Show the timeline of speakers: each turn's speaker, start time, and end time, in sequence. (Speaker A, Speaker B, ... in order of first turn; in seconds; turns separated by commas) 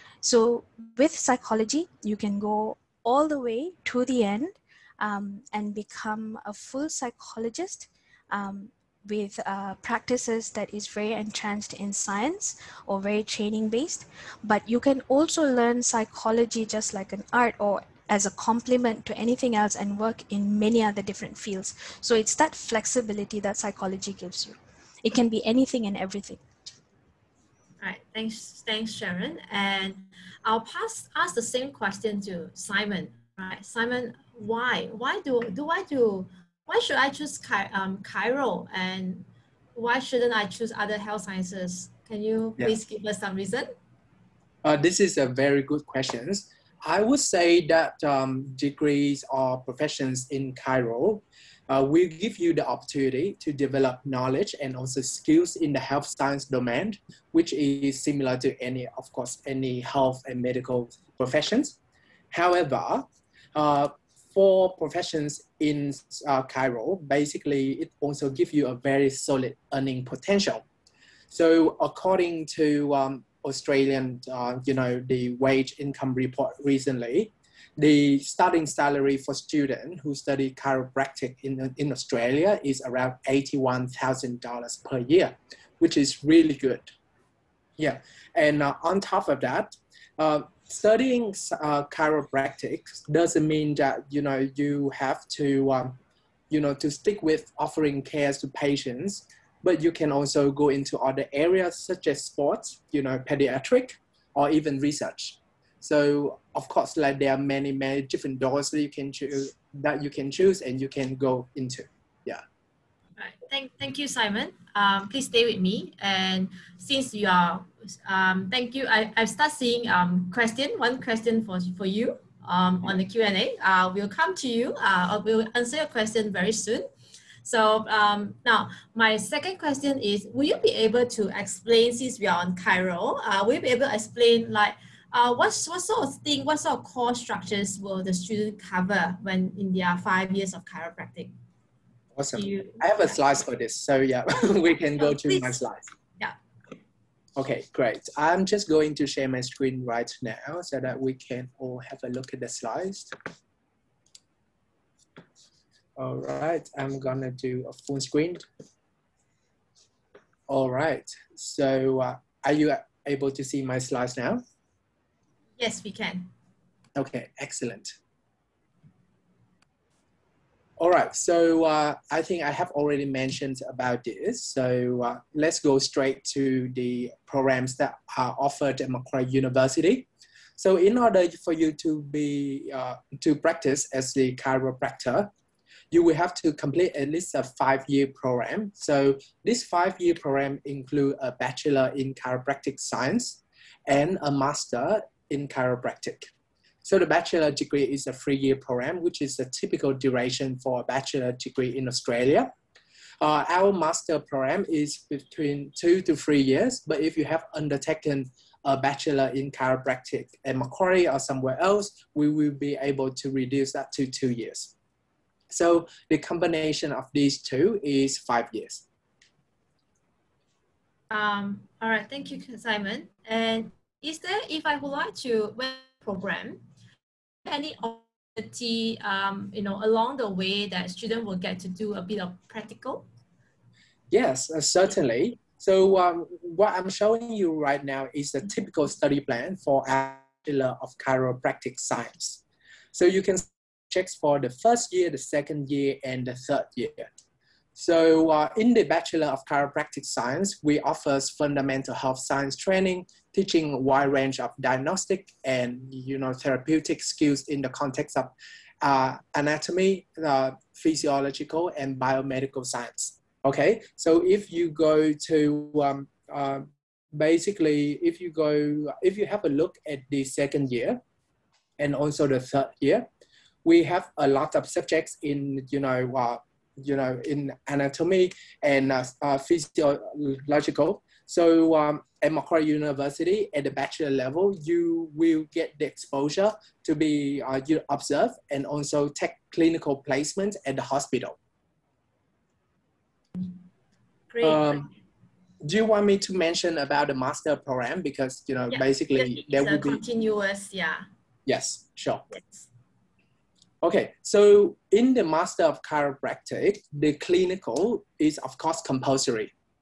Speaker A: 0.2-26.4, Speaker B: 27.8-43.7, Speaker C: 44.6-61.8, Speaker C: 62.3-70.6, Speaker C: 71.3-87.0, Speaker C: 87.8-96.0, Speaker C: 96.5-112.4, Speaker B: 113.2-126.9, Speaker B: 127.4-141.3, Speaker C: 142.2-145.8, Speaker B: 142.3-143.2, Speaker B: 145.0-145.6, Speaker C: 147.4-153.1, Speaker C: 156.0-158.4, Speaker C: 160.5-164.4, Speaker B: 165.6-166.3, Speaker C: 166.9-168.0, Speaker C: 170.8-185.3, Speaker C: 185.9-196.3, Speaker C: 196.8-202.5, Speaker C: 203.2-214.7, Speaker C: 215.5-218.8, Speaker B: 221.1-226.6, Speaker B: 227.4-233.1, Speaker C: 234.1-242.4, Speaker C: 242.9-247.1, Speaker C: 247.8-271.0, Speaker C: 271.8-273.1, Speaker C: 273.6-291.4, Speaker B: 294.3-294.9, Speaker C: 294.4-294.9, Speaker C: 295.6-300.0, Speaker B: 298.7-301.1, Speaker C: 301.5-302.3, Speaker B: 302.3-302.7, Speaker C: 303.8-309.5